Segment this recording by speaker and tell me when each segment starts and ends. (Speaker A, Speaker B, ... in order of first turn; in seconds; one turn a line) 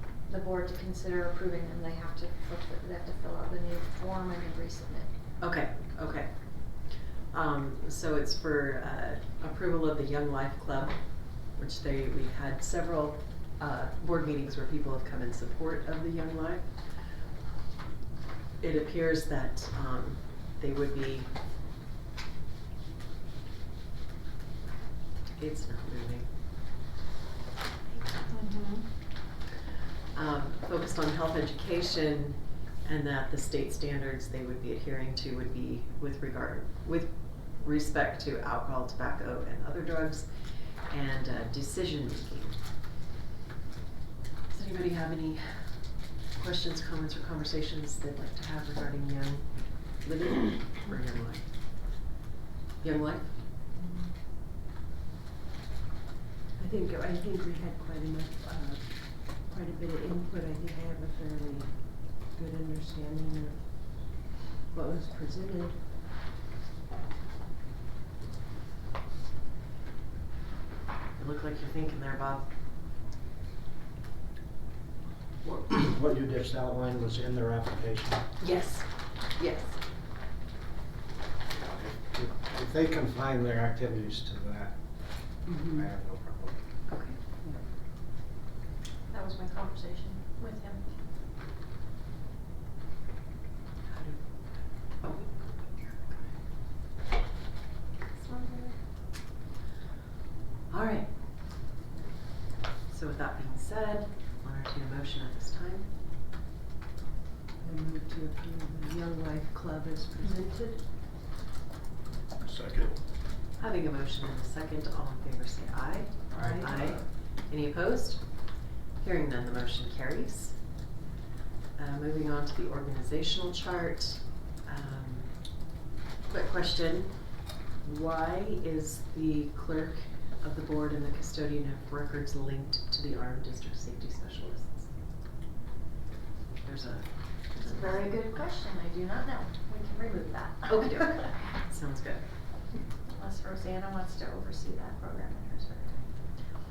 Speaker A: 0.2-5.1
Speaker B: 5.4-17.1
Speaker B: 18.6-21.3
Speaker B: 25.3-26.3
Speaker B: 27.9-28.4
Speaker A: 28.3-28.7
Speaker B: 30.1-42.6
Speaker B: 44.5-51.5
Speaker B: 52.8-53.4
Speaker C: 53.7-54.2
Speaker C: 56.6-65.8
Speaker B: 71.2-72.5
Speaker D: 75.4-78.2
Speaker B: 78.4-78.9
Speaker B: 79.4-79.7
Speaker D: 81.6-86.6
Speaker C: 85.5-85.9
Speaker B: 86.9-87.2
Speaker A: 89.1-91.0
Speaker B: 93.9-96.3
Speaker A: 98.2-98.8
Speaker B: 100.7-101.2
Speaker B: 102.9-105.9
Speaker C: 107.6-110.8
Speaker D: 112.5-112.9
Speaker B: 113.6-120.7
Speaker C: 116.3-116.9
Speaker D: 116.3-116.8
Speaker B: 121.8-125.5
Speaker B: 126.3-134.9
Speaker B: 136.5-138.4
Speaker A: 137.5-141.4
Speaker B: 140.7-142.2
Speaker A: 143.1-146.1